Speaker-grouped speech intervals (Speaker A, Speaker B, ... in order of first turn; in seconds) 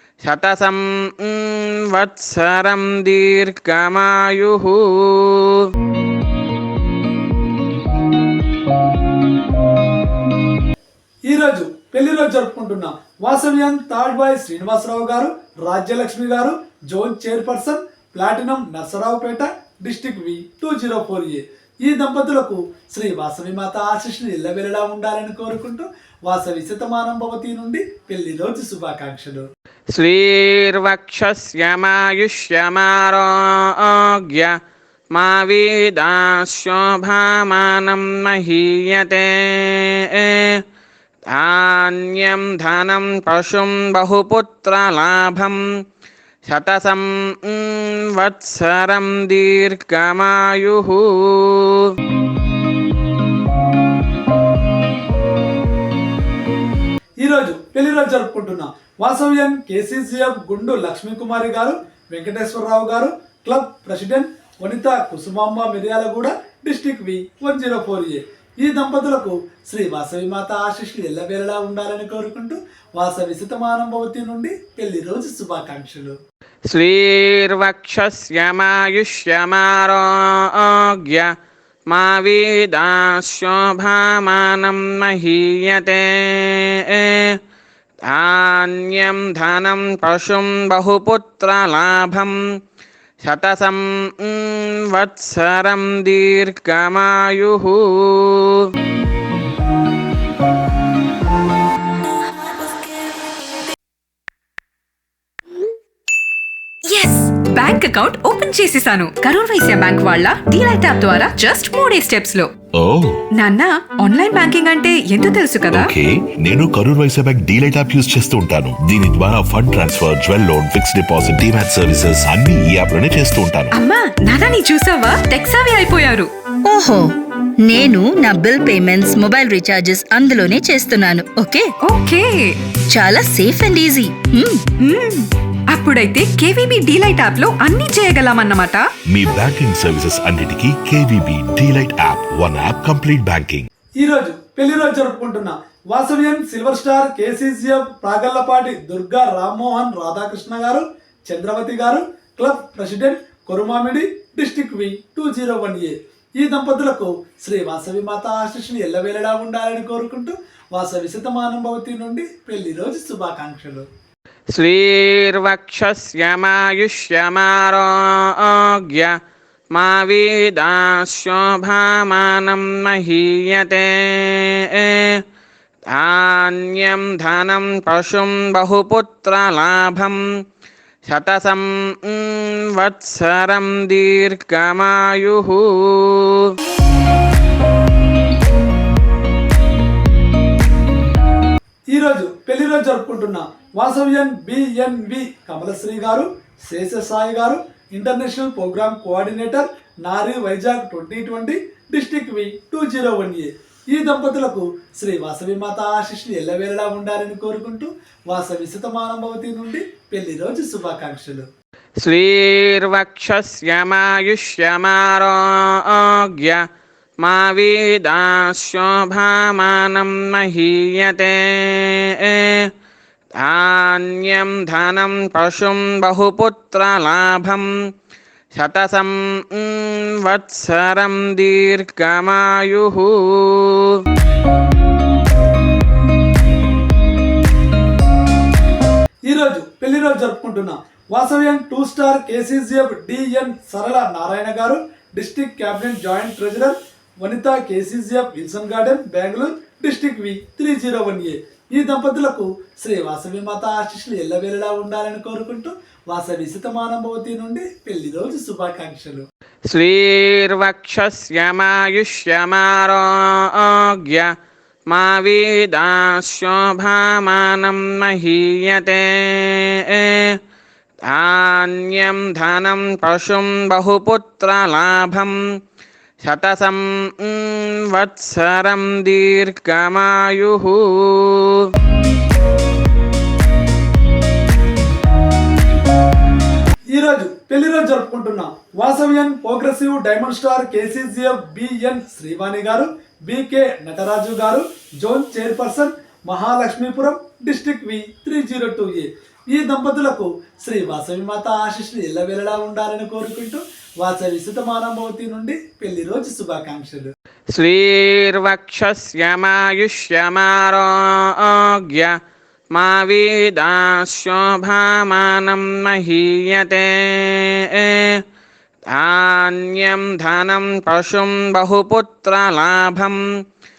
Speaker A: 0.2-5.7, 29.9-34.5, 35.1-40.6, 41.3-45.6, 46.5-51.9, 76.7-81.3, 81.9-87.4, 88.0-92.4, 93.2-98.7, 164.5-169.1, 169.7-175.2, 175.9-180.2, 181.1-186.5, 212.0-216.6, 217.2-222.7, 223.4-227.7, 228.5-234.0, 259.7-264.3, 264.9-270.4, 271.1-275.4, 276.2-281.7, 307.5-312.1, 312.7-318.2, 318.9-323.2
Speaker B: 11.3-29.4, 57.2-76.2, 144.0-163.9, 191.9-211.5, 239.3-259.2, 286.9-307.1
Speaker C: 106.8-112.5, 113.4-115.9, 123.8-126.3, 131.8-132.6, 134.8-138.9
Speaker D: 112.8-113.2, 115.7-123.7, 139.1-143.7
Speaker E: 126.7-127.0, 127.6-131.6, 132.9-134.6